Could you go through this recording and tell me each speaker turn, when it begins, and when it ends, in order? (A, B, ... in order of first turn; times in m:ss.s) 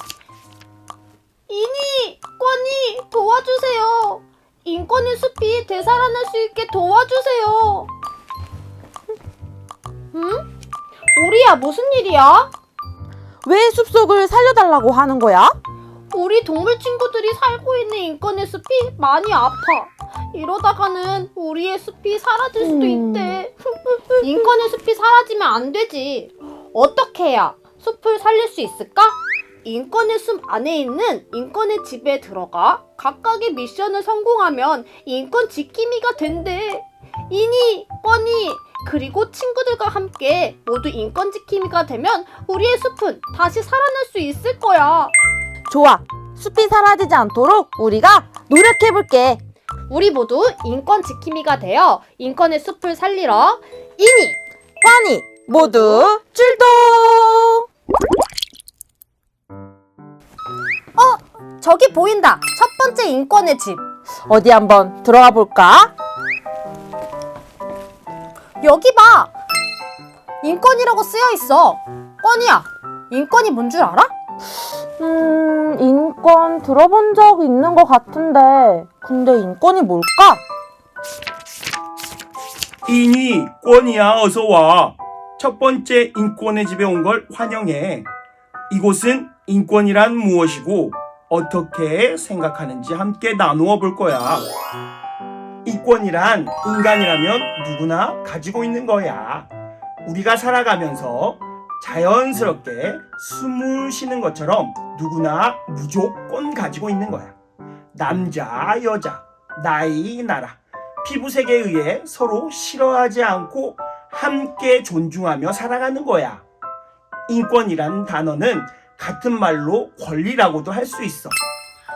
0:01.5-0:07.9 A
0:10.1-0:10.5 A
0:11.1-0:12.5 A
0:13.4-0:15.5 B
0:16.1-0:45.1 A
0:22.6-0:23.4 B
0:45.7-0:49.4 B
0:49.9-0:54.4 A
0:54.8-0:57.6 B
0:55.6-0:56.0 A
1:01.0-1:03.8 A
1:04.3-1:05.9 B
1:08.6-1:09.3 A
1:10.4-1:14.1 A
1:15.0-1:20.4 B
1:22.8-1:28.1 C
1:28.7-1:34.5 C
1:35.6-1:39.5 C
1:40.0-1:47.3 C
1:47.9-1:56.4 C
1:57.3-2:01.3 C